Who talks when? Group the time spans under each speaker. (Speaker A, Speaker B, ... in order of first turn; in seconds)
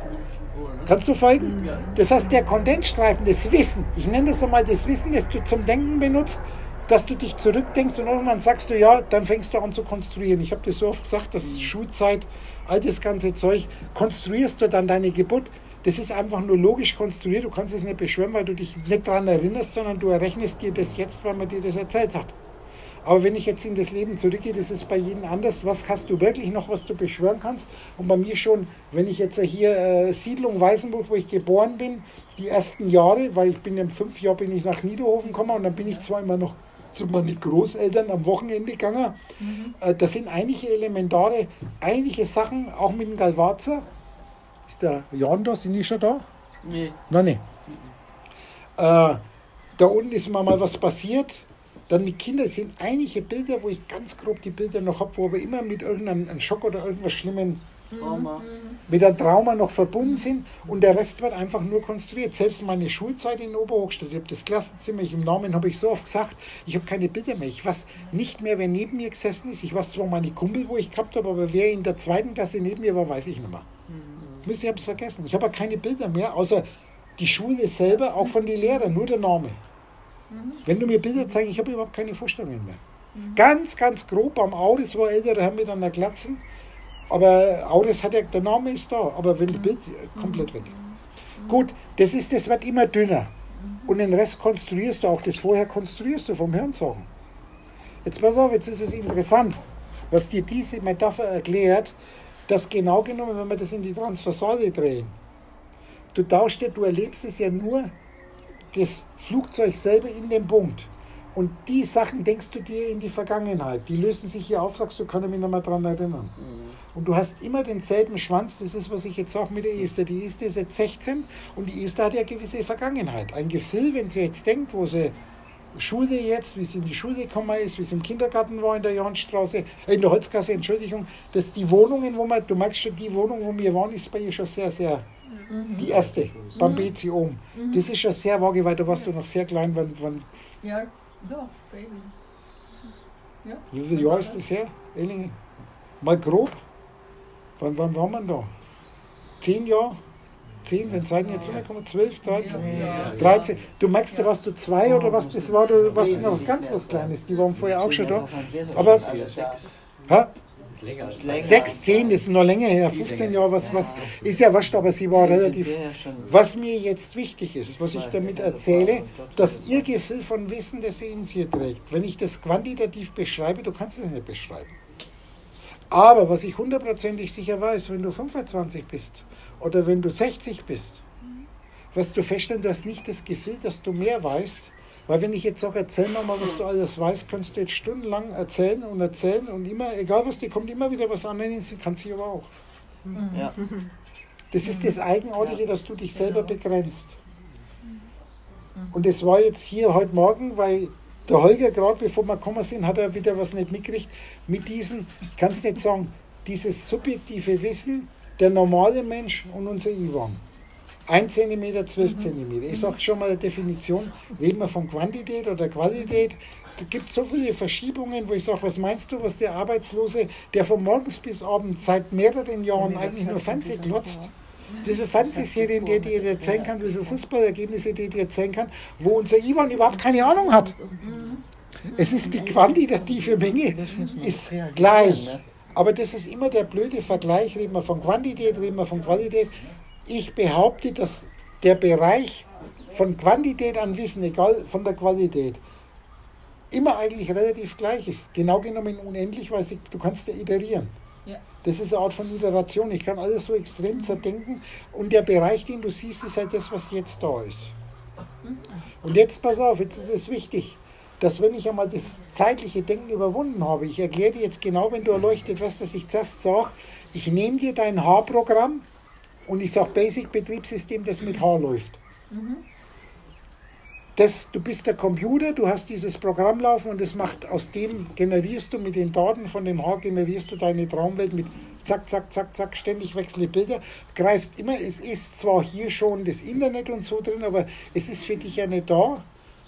Speaker A: 0.8-22.4, 23.1-39.2, 39.8-43.9, 44.7-46.3, 47.1-47.4, 48.8-49.2, 49.8-57.6, 58.9-73.7, 74.4-76.7, 77.2-79.6, 80.7-82.8, 83.3-86.4, 87.1-90.7, 91.5-93.3, 93.9-97.1, 98.0-101.9, 102.5-105.1, 106.1-107.9, 108.7-116.3, 116.9-125.2, 125.7-135.1, 135.8-140.3, 143.7-145.4, 146.0-146.6, 147.6-148.5, 149.4-150.0, 150.6-159.1, 160.1-160.3, 161.3-174.7, 175.9-181.0, 181.9-192.5, 194.5-197.2, 198.9-210.4, 211.1-230.8, 231.9-245.6, 246.7-250.9, 251.6-257.7, 259.0-268.9, 269.5-272.0, 274.2-289.2
Speaker B: 11.4-11.7, 46.6-47.0, 58.0-58.5, 73.9-74.5, 116.4-116.8, 152.5-153.3, 154.8-159.7, 161.1-162.2, 163.5-164.3, 165.1-166.4, 167.7-169.9, 193.3-193.6, 222.8-224.3, 224.8-227.1, 230.0-231.1, 231.8-235.4
Speaker C: 39.4-39.8, 57.9-58.8, 80.3-80.7, 83.1-83.4, 89.5-91.6, 93.5-93.9, 135.5-135.9, 136.6-136.9, 137.6-137.8, 140.6-142.1, 143.4-144.4, 152.3-153.4, 193.1-193.6, 194.6-195.0, 196.2-196.6, 231.0-231.4, 272.3-272.6